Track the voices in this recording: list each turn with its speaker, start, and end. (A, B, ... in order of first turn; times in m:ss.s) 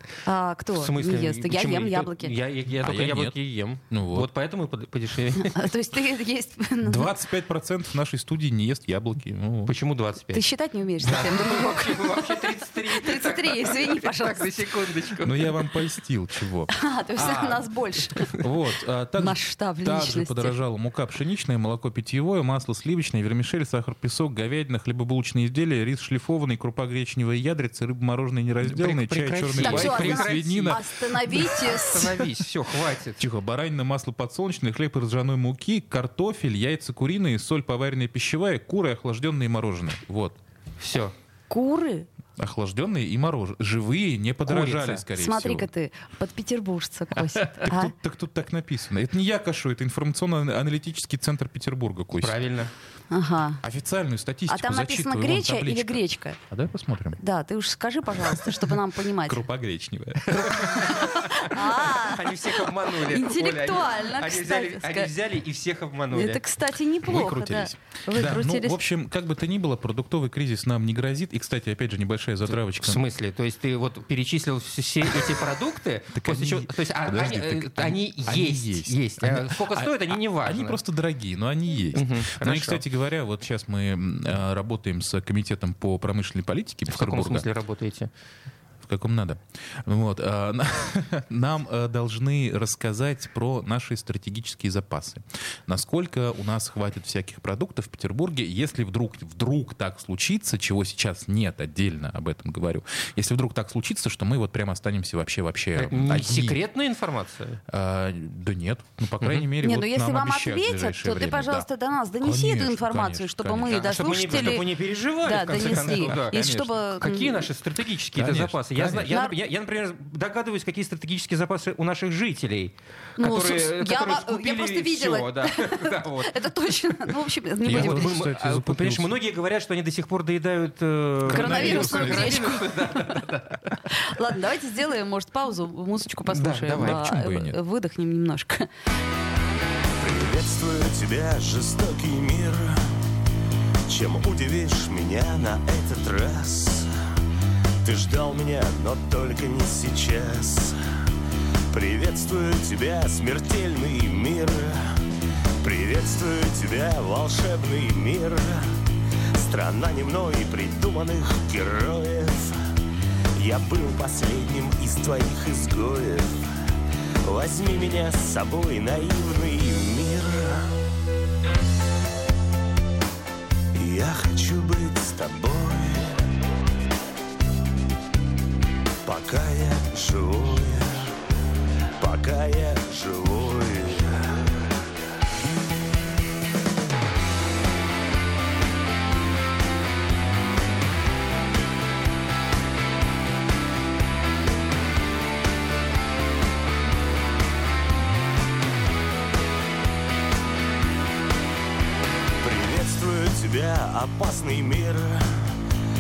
0:00.3-0:02.4 A
0:00.8-0:05.6 B
0:02.8-0:03.4 C
0:03.9-0:04.3 C
0:05.5-0:07.1 A
0:06.8-0:09.7 C
0:09.7-0:10.4 B
0:10.3-0:14.5 A
0:11.0-0:15.6 B
0:15.2-0:16.7 C
0:16.7-0:18.3 A
0:17.2-0:17.6 B
0:18.4-0:30.8 C
0:19.2-0:20.6 A
0:28.6-0:33.2 B
0:29.6-0:32.3 A
0:33.2-0:40.4 C
0:40.8-0:41.1 B
0:41.5-0:42.1 A
0:42.4-0:45.7 C
0:44.5-0:45.0 B
0:45.2-0:47.9 A
0:47.3-0:52.4 C
0:52.2-0:52.7 B
0:53.1-0:53.6 A
0:53.6-0:57.2 C
0:54.5-0:56.4 A
0:57.2-0:59.4 A
0:59.2-1:01.3 C
1:00.3-1:06.4 B
1:00.9-1:05.1 A
1:06.1-1:08.8 A
1:07.0-1:13.0 C
1:12.5-1:20.8 B
1:16.2-1:27.5 C
1:21.9-1:22.8 B
1:26.9-1:28.1 B
1:28.8-1:46.6 C
1:45.8-1:47.6 B
1:47.7-1:54.7 C
1:49.6-1:57.4 A
1:53.7-2:07.1 B
1:55.4-1:56.8 C
1:58.1-1:59.2 C
1:59.1-1:59.3 A
2:03.2-2:08.1 A
2:07.6-2:13.8 B
2:07.6-2:09.2 C
2:11.3-2:12.6 C
2:11.3-2:13.2 A
2:13.8-2:18.7 A
2:16.3-2:17.0 B
2:16.8-2:17.6 C
2:20.0-2:22.8 D
2:23.9-2:26.9 D
2:27.8-2:30.8 D
2:31.7-2:35.0 D
2:35.6-2:38.8 D
2:39.4-2:42.6 D
2:43.4-2:46.5 D
2:47.2-2:50.7 D
2:53.8-2:56.2 D
2:59.0-3:01.1 D
3:02.0-3:04.6 D
3:22.4-3:25.5 D